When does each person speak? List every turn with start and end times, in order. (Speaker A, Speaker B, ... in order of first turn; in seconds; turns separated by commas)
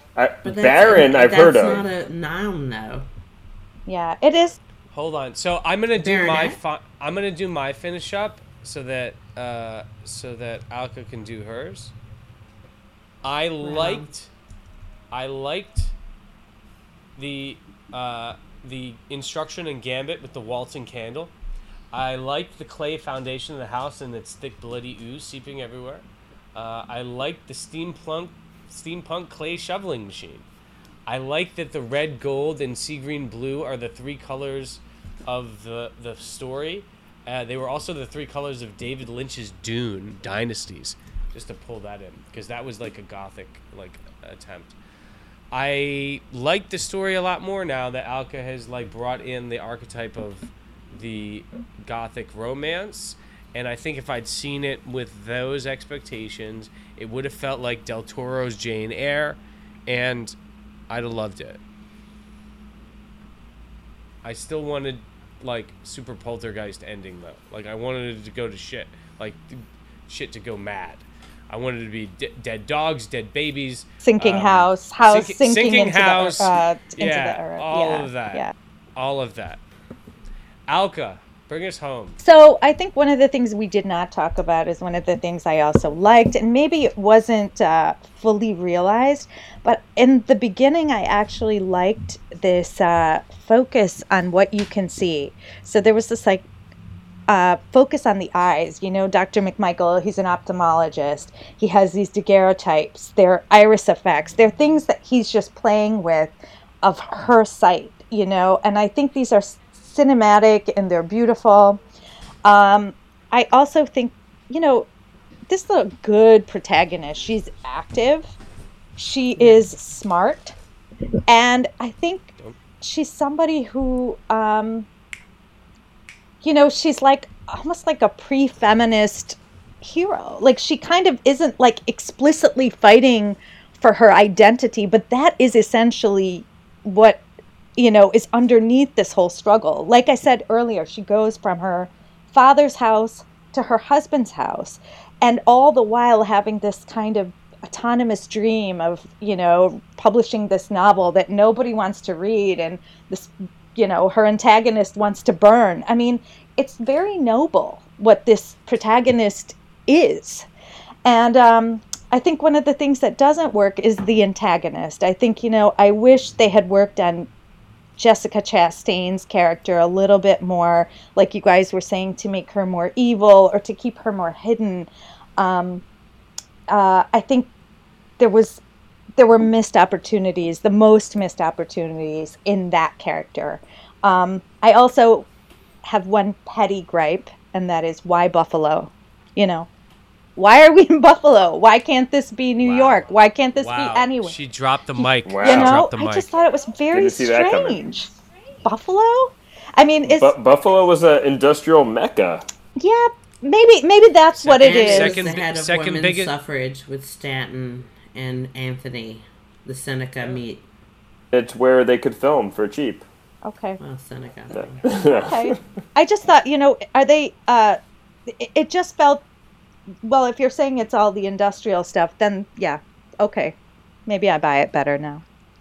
Speaker A: 0.2-1.9, Speaker B: 0.4-3.1, Speaker C: 3.9-4.6, Speaker D: 4.9-11.9, Speaker B: 6.0-6.6, Speaker D: 13.2-14.3, Speaker B: 13.6-14.1, Speaker D: 15.1-15.9, Speaker D: 17.2-21.3, Speaker D: 21.9-30.4, Speaker D: 31.1-44.8, Speaker D: 45.5-60.4, Speaker D: 60.9-61.6, Speaker D: 64.2-78.5, Speaker C: 74.0-78.5, Speaker D: 79.0-79.6, Speaker D: 80.7-82.2, Speaker C: 82.2-96.5, Speaker C: 97.3-111.8, Speaker C: 112.5-114.9, Speaker C: 115.5-118.3, Speaker C: 119.0-120.5, Speaker C: 121.3-124.9, Speaker C: 126.4-137.2, Speaker C: 137.8-160.5, Speaker C: 161.1-167.3, Speaker C: 168.0-175.8, Speaker C: 176.7-177.5, Speaker C: 178.2-178.6, Speaker C: 179.2-185.3, Speaker C: 185.9-189.7, Speaker C: 190.4-194.4, Speaker D: 192.6-196.3, Speaker C: 195.0-198.1, Speaker A: 195.2-195.8, Speaker A: 196.9-197.8, Speaker C: 198.7-200.3, Speaker A: 200.1-202.4, Speaker C: 202.8-205.2, Speaker D: 204.3-206.3, Speaker B: 204.6-210.6, Speaker A: 211.3-213.1, Speaker C: 213.4-213.8, Speaker B: 213.8-214.9, Speaker A: 214.8-215.6, Speaker C: 215.3-217.8, Speaker C: 218.3-219.2, Speaker C: 220.0-223.6, Speaker C: 224.1-225.2